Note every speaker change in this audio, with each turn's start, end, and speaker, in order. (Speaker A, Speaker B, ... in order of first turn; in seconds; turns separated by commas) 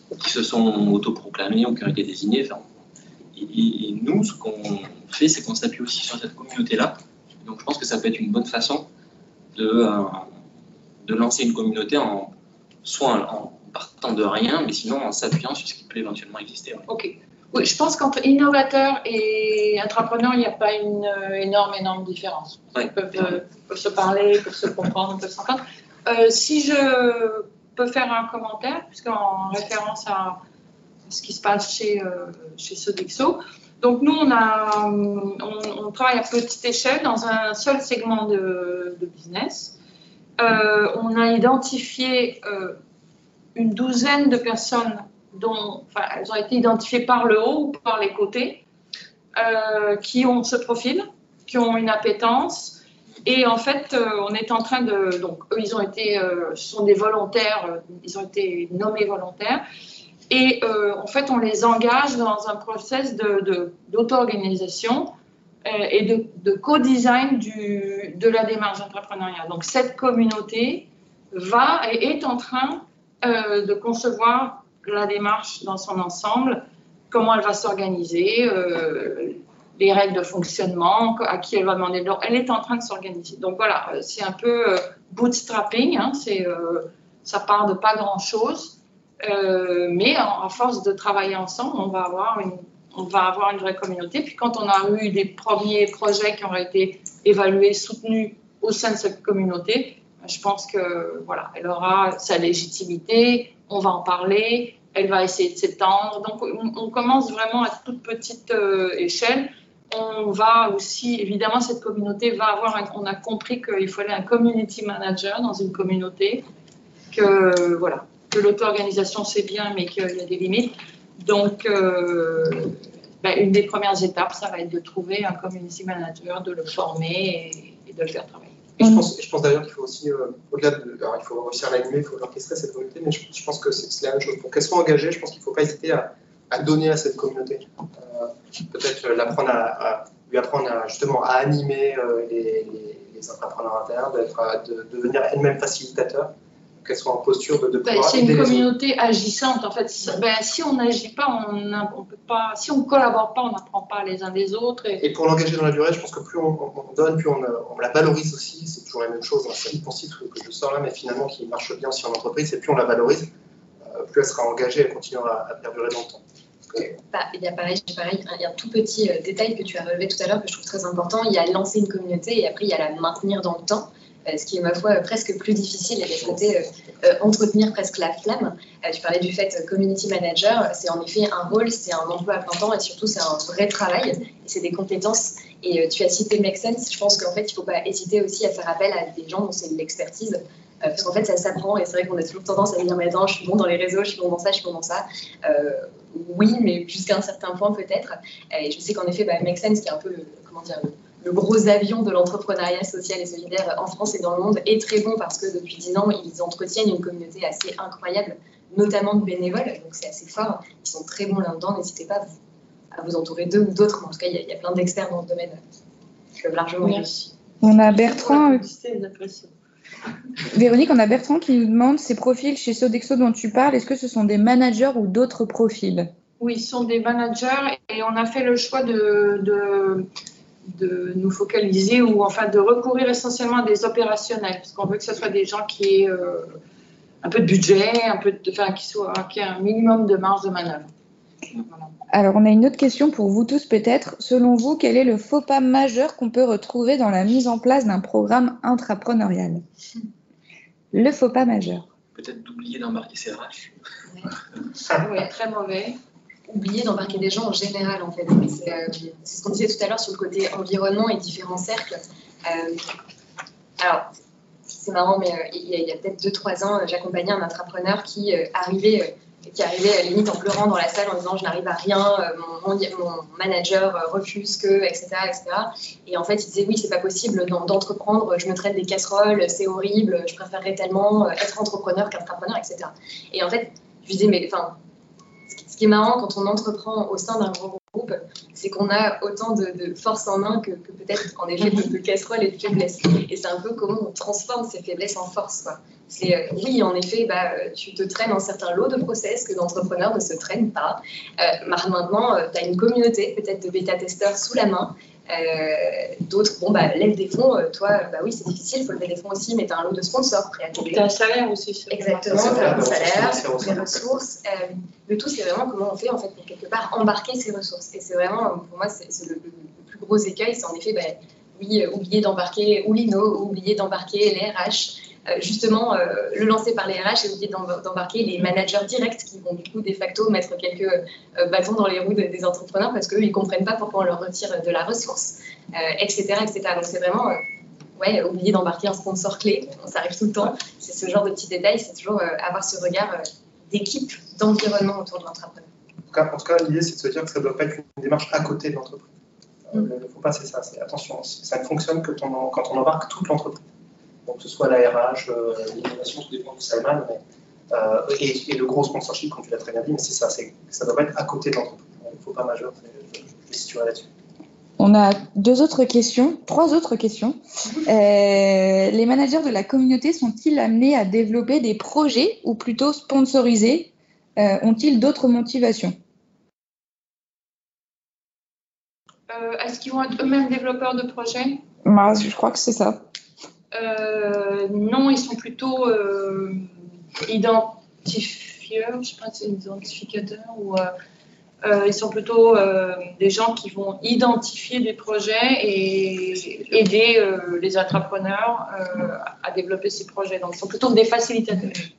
Speaker A: 0.1-2.6, Speaker A: 3.4-8.9, Speaker A: 9.5-10.3, Speaker A: 11.0-12.3, Speaker A: 12.8-16.9, Speaker B: 16.9-30.4, Speaker B: 31.1-39.7, Speaker B: 40.4-42.8, Speaker B: 43.5-48.6, Speaker B: 49.4-59.6, Speaker B: 60.3-65.1, Speaker B: 65.6-116.5, Speaker B: 117.1-128.6, Speaker C: 128.8-148.7, Speaker D: 128.8-129.0, Speaker B: 147.8-155.0, Speaker C: 155.0-163.3, Speaker C: 163.9-166.9, Speaker E: 167.1-212.3, Speaker E: 212.9-215.6, Speaker E: 216.4-217.1, Speaker B: 216.8-217.3, Speaker D: 217.6-218.6, Speaker B: 217.8-219.5, Speaker D: 220.5-226.1, Speaker B: 226.4-230.1, Speaker B: 230.6-236.6, Speaker B: 237.2-240.9, Speaker B: 241.6-241.9, Speaker D: 242.1-249.6, Speaker D: 250.9-251.9, Speaker A: 252.1-253.8, Speaker B: 255.0-256.0, Speaker E: 256.5-262.8, Speaker E: 263.8-264.1, Speaker E: 264.7-284.8, Speaker E: 285.5-311.1, Speaker B: 310.7-312.9, Speaker E: 311.9-337.4, Speaker C: 312.3-314.1, Speaker E: 337.9-345.7, Speaker C: 346.1-349.1, Speaker C: 349.7-353.6, Speaker C: 354.3-364.1, Speaker D: 364.8-375.9, Speaker B: 379.3-381.6, Speaker D: 381.9-383.0, Speaker B: 383.7-386.6, Speaker B: 387.2-390.9, Speaker B: 391.6-401.9